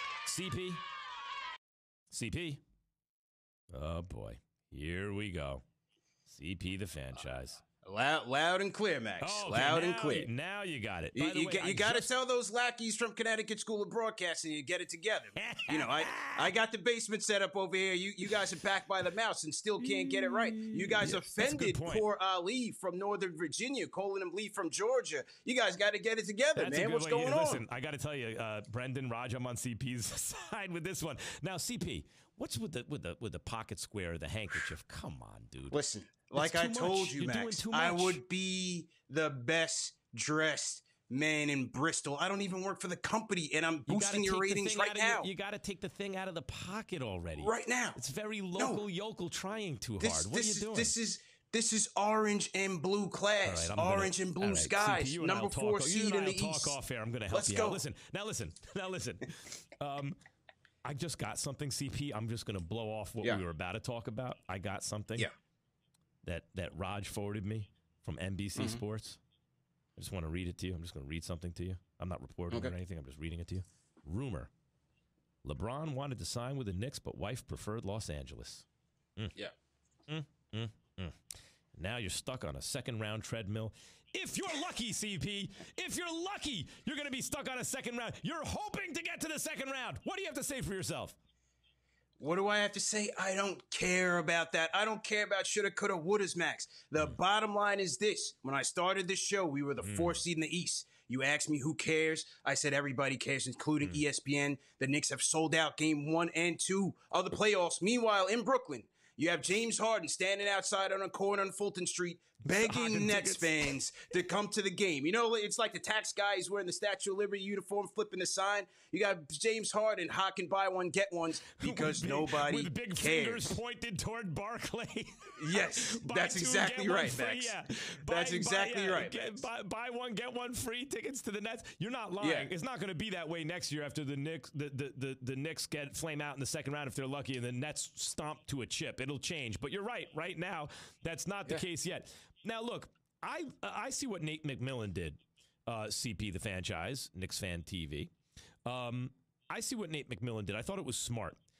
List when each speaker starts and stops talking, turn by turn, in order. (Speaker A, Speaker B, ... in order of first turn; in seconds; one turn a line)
Speaker A: 0.2-0.8
Speaker A: 2.1-2.6
Speaker A: 3.7-5.6
Speaker A: 6.3-7.6
Speaker B: 7.8-10.3
Speaker A: 9.2-12.1
Speaker B: 11.1-27.6
Speaker A: 15.3-16.5
Speaker A: 19.8-22.0
Speaker A: 26.6-35.8
Speaker B: 35.7-45.3
Speaker A: 36.3-38.2
Speaker A: 43.9-50.9
Speaker B: 47.4-48.0
Speaker B: 48.6-48.8
Speaker B: 50.0-56.8
Speaker A: 53.4-60.2
Speaker B: 57.3-57.8
Speaker A: 60.8-65.3
Speaker A: 66.2-69.2
Speaker B: 68.5-68.8
Speaker A: 70.0-74.5
Speaker A: 75.4-79.4
Speaker A: 80.1-81.2
Speaker A: 81.7-91.2
Speaker B: 92.2-123.6
Speaker A: 99.8-100.2
Speaker A: 112.4-113.8
Speaker A: 121.6-148.1
Speaker B: 125.4-129.5
Speaker B: 132.2-132.5
Speaker A: 148.7-151.4